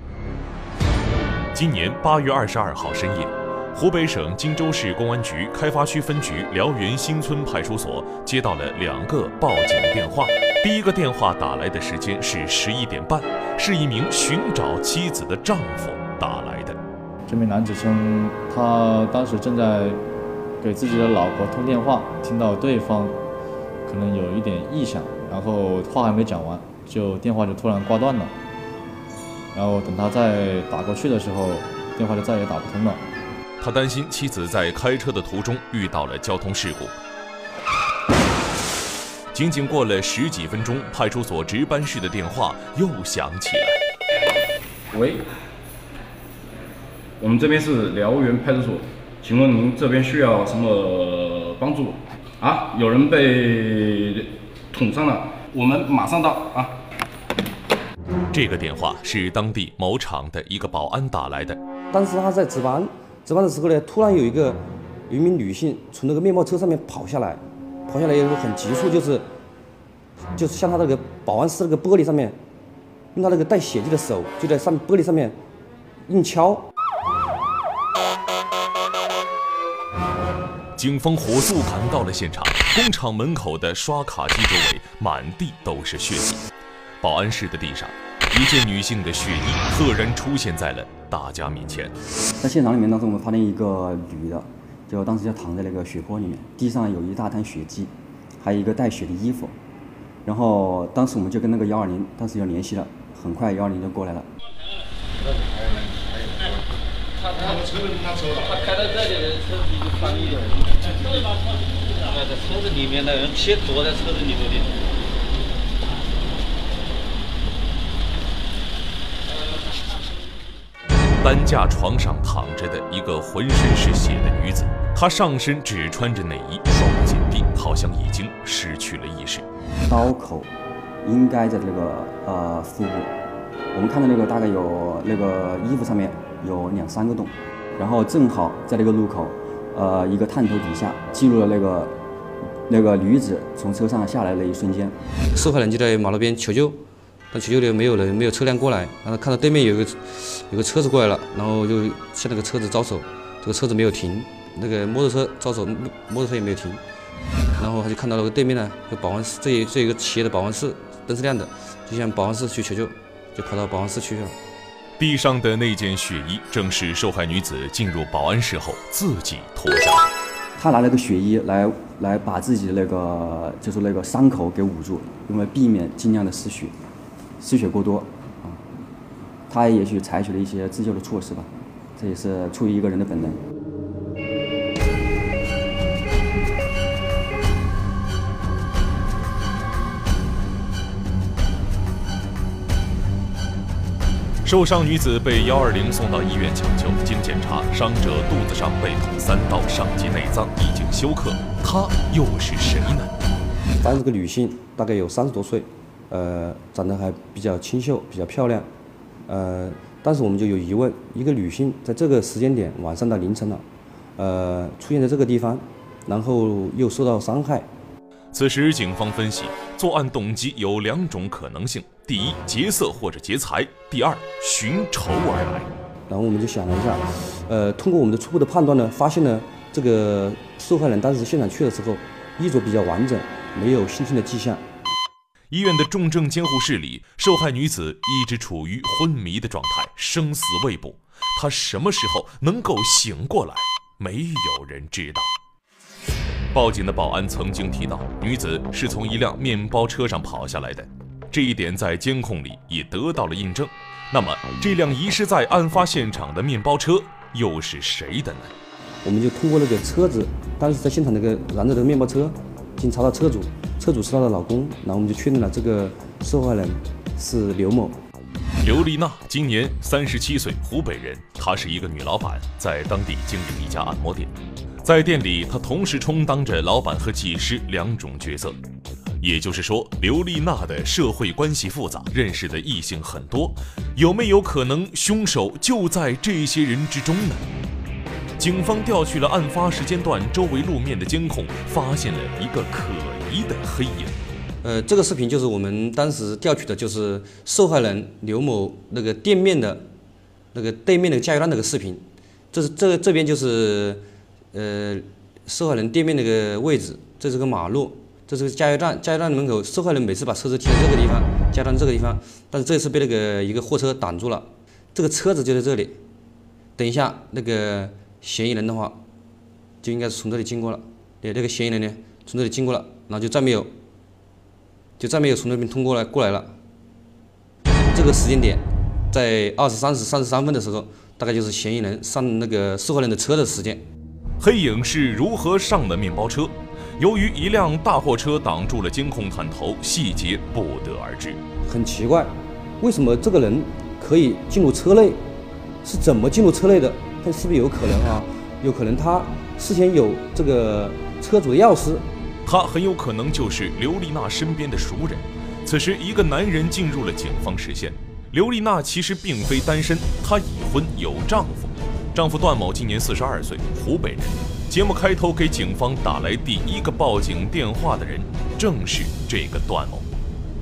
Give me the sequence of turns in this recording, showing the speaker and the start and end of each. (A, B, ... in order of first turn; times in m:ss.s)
0:01.5-0:16.8 A
0:17.2-0:20.0 B
0:20.6-0:23.2 B
0:23.8-0:28.3 B
0:29.5-0:33.0 B
0:33.6-0:36.9 A
0:39.3-0:43.8 A
0:44.9-0:45.2 C
0:47.2-0:56.8 C
0:58.3-1:01.6 A
1:01.9-1:09.2 D
1:10.4-1:12.4 D
1:13.1-1:15.4 D
1:16.1-1:16.6 D
1:20.8-1:26.4 A
1:27.0-1:31.9 A
1:32.4-1:39.6 E
1:40.2-1:44.3 E
1:47.3-1:47.5 F
1:47.6-1:48.4 C
1:48.5-1:51.3 F
1:52.0-1:54.8 F
2:01.2-2:09.4 A
2:09.9-2:10.5 E
2:11.0-2:13.1 E
2:13.7-2:22.0 E
2:22.7-2:25.0 E
2:25.3-2:26.8 D
2:27.3-2:36.8 D
2:37.6-2:44.4 D
2:45.0-2:50.1 A
2:50.6-2:56.8 E
2:57.4-2:58.6 E
2:59.5-3:03.4 E
3:14.4-3:23.1 A
3:23.8-3:28.7 D
3:29.3-3:33.6 D
3:34.2-3:37.7 D
3:38.3-3:45.7 A
3:46.1-3:54.6 D
3:55.5-4:05.3 A
4:06.5-4:18.5 A
4:19.0-4:28.0 D
4:28.6-4:38.6 A
4:39.2-4:47.5 A
4:48.4-4:54.2 A
4:54.6-4:59.8 D
5:00.5-5:04.0 D
5:04.5-5:16.0 D
5:16.8-5:19.0 D
5:19.8-5:23.7 D
5:25.0-5:26.5 D
5:27.9-5:33.8 D
5:34.4-5:41.4 A
5:41.7-5:45.2 D
5:45.8-5:52.0 D
5:52.4-6:10.1 A